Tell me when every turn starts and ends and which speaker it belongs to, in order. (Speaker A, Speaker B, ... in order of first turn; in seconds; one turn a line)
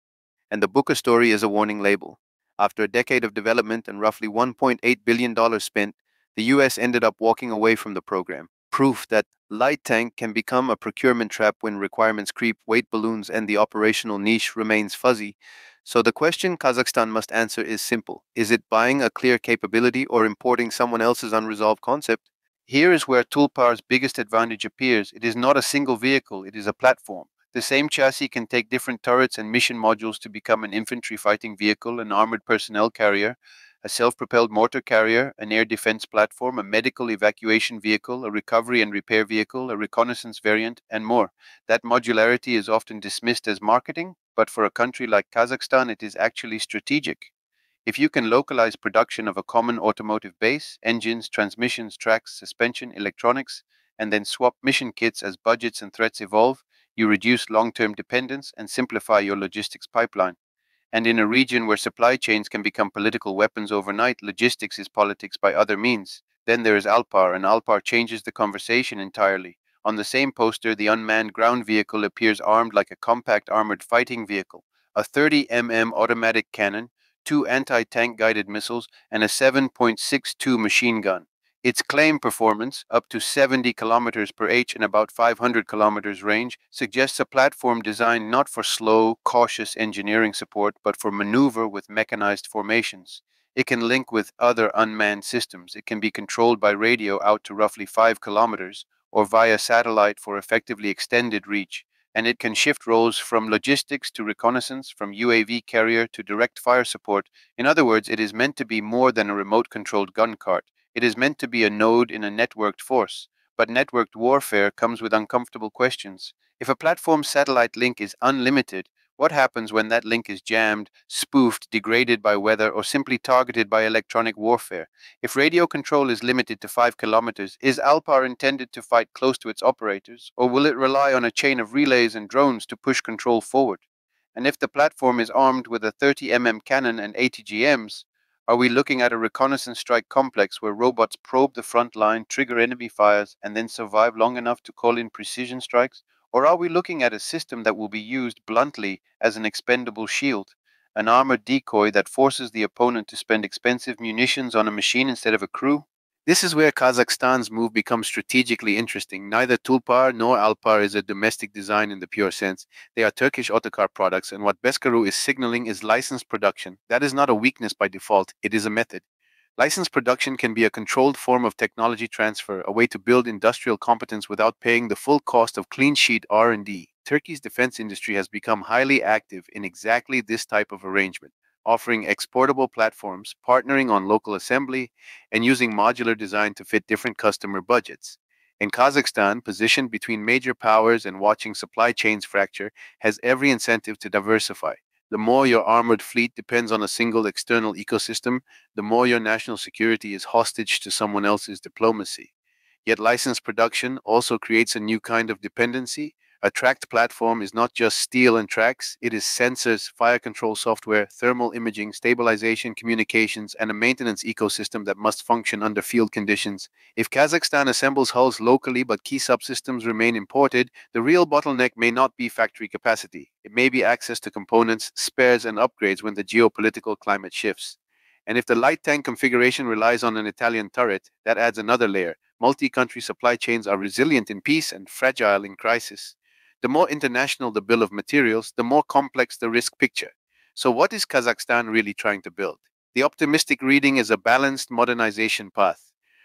Speaker A: 0.5-47.3
Speaker A: 47.9-60.4
Speaker A: 60.9-133.8
Speaker A: 134.3-169.0
Speaker A: 169.6-202.3
Speaker A: 202.8-245.8